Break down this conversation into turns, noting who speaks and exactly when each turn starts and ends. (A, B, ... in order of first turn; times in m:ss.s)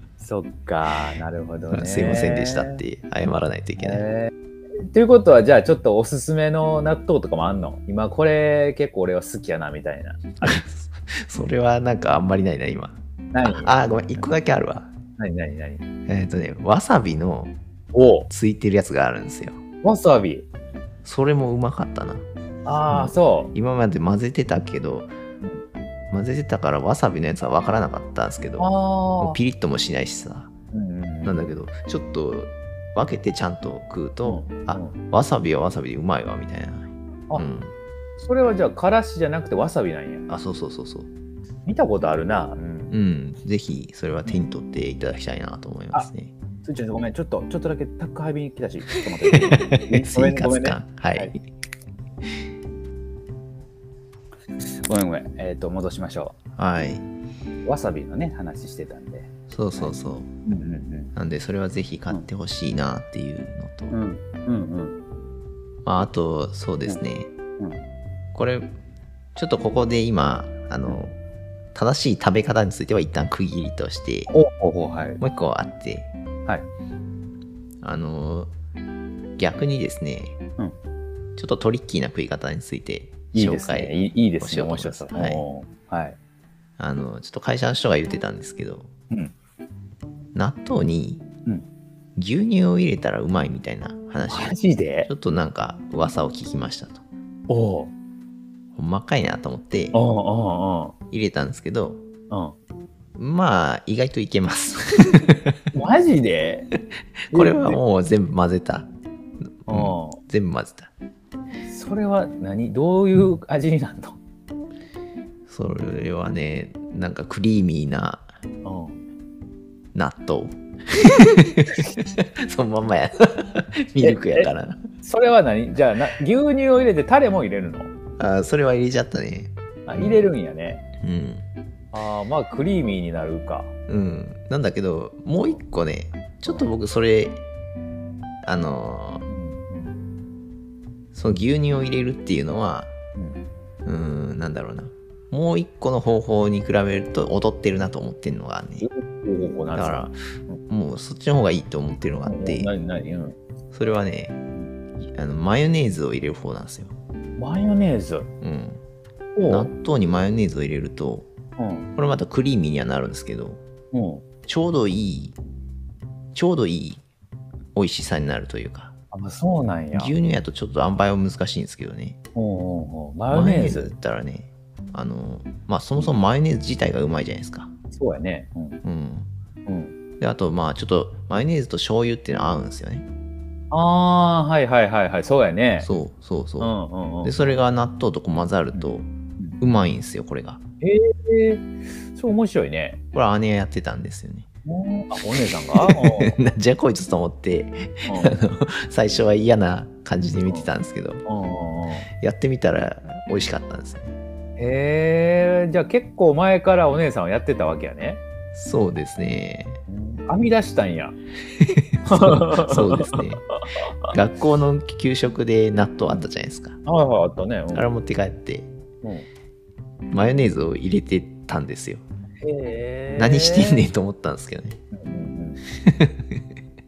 0:00.2-0:02.8 A
0:01.7-0:04.0 B
0:03.8-0:10.6 A
0:10.4-0:14.9 B
0:13.3-0:13.8 A
0:15.2-0:15.8 A
0:16.1-0:17.6 B
0:17.9-0:18.3 A
0:18.3-0:19.6 B
0:19.8-0:20.5 A
0:21.0-0:22.2 B
0:22.6-0:23.5 A
0:22.9-0:25.1 B
0:26.1-0:30.5 B
0:28.6-0:29.4 A
0:30.7-0:31.4 A
0:31.2-0:37.7 B
0:34.2-0:35.0 A
0:38.2-0:40.2 A
0:40.3-0:41.1 B
0:41.6-0:42.9 A
0:42.9-0:46.3 B
0:46.6-0:51.4 A
0:49.9-0:51.4 B
0:54.6-0:56.4 A
0:56.6-0:57.0 B
0:57.6-1:01.1 A
0:59.5-1:00.3 B
1:01.1-1:04.0 B
1:03.9-1:05.0 A
1:05.8-1:07.3 B
1:08.3-1:08.7 B
1:09.4-1:11.2 B
1:11.7-1:14.3 B
1:14.3-1:15.2 A
1:15.2-1:16.1 B
1:17.8-1:18.5 B
1:19.4-1:20.4 B
1:21.4-1:25.4 B
1:23.3-1:26.2 A
1:26.8-1:28.9 B
1:30.4-1:31.2 B
1:32.2-1:37.0 B
1:34.3-1:35.1 A
1:37.5-1:37.9 A
1:38.8-1:40.0 B
1:39.9-1:41.0 A
1:41.1-1:42.0 B
1:43.2-1:45.6 B
1:45.7-1:46.7 A
1:47.3-1:48.9 B
1:47.3-1:47.8 A
1:49.6-1:50.9 B
1:49.7-1:50.2 A
1:51.6-1:54.2 A
1:55.5-1:58.3 B
1:58.6-1:59.0 A
1:59.9-2:04.9 B
2:04.0-2:04.5 A
2:05.0-2:07.9 A
2:08.2-2:10.3 B
2:09.9-2:10.8 A
2:11.0-2:11.4 B
2:11.9-2:13.7 A
2:13.9-2:17.4 B
2:18.4-2:19.2 B
2:19.3-2:20.0 A
2:21.1-2:22.9 B
2:23.2-2:23.4 A
2:23.8-2:28.9 B
2:28.8-2:30.6 A
2:29.7-2:30.2 B
2:30.7-2:32.7 B
2:32.2-2:33.4 A
2:33.7-2:34.4 B
2:35.1-2:36.9 B
2:37.4-2:38.3 A
2:38.4-2:38.8 B
2:39.4-2:39.7 A
2:39.5-2:41.3 B
2:41.6-2:41.9 A
2:42.0-2:43.6 B
2:43.9-2:44.2 A
2:44.4-2:45.4 B
2:46.3-2:47.0 B
2:47.8-2:48.9 B
2:49.1-2:50.1 A
2:49.9-2:52.2 B
2:52.4-2:53.9 A
2:53.3-2:57.7 B
2:57.9-2:58.8 A
2:58.8-2:59.3 B
2:59.6-2:59.9 A
3:00.2-3:03.0 B
3:03.7-3:05.9 A
3:05.8-3:09.1 B
3:06.6-3:07.4 A
3:08.7-3:09.6 A
3:09.6-3:10.6 B
3:10.8-3:13.0 A
3:13.1-3:14.4 B
3:14.6-3:16.4 A
3:15.8-3:21.2 B
3:18.1-3:18.4 A
3:21.2-3:22.1 A
3:22.2-3:24.1 B
3:24.6-3:28.2 A
3:28.5-3:29.8 B
3:29.9-3:31.2 A
3:31.6-3:33.4 B
3:32.0-3:33.8 A
3:34.1-3:36.8 B
3:36.8-3:37.9 A
3:37.7-3:38.7 B
3:39.0-3:39.3 A
3:40.1-3:42.0 B
3:42.4-3:43.9 A
3:43.2-3:44.8 B
3:44.9-3:45.6 A
3:45.8-3:46.5 B